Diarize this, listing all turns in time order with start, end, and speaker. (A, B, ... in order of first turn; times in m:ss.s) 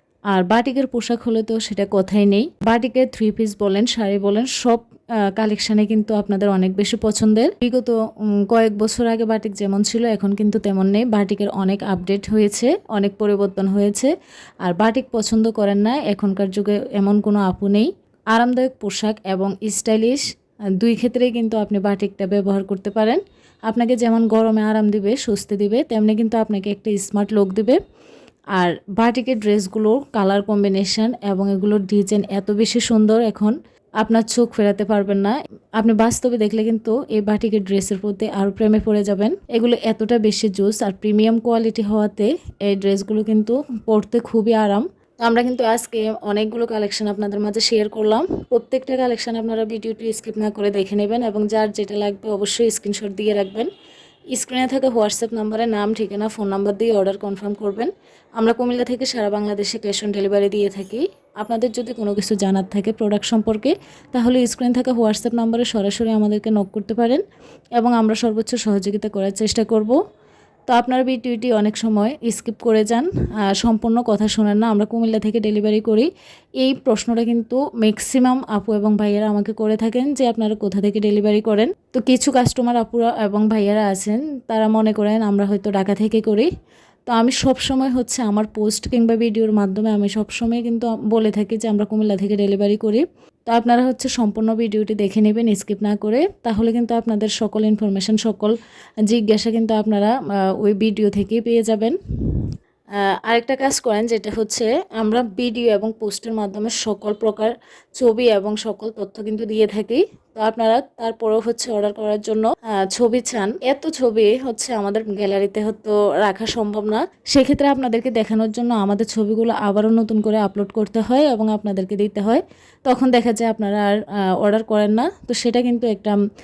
0:00.3-0:04.8 A
0:05.4-0:08.0 A
0:08.5-0:14.1 A
0:14.6-0:20.2 A
0:20.8-0:27.8 A
0:28.5-0:53.7 A
0:54.4-1:07.2 A
1:07.8-1:10.0 A
1:10.7-1:16.1 A
1:16.6-1:26.5 A
1:27.1-1:38.6 A
1:39.1-1:42.5 A
1:43.0-2:06.2 A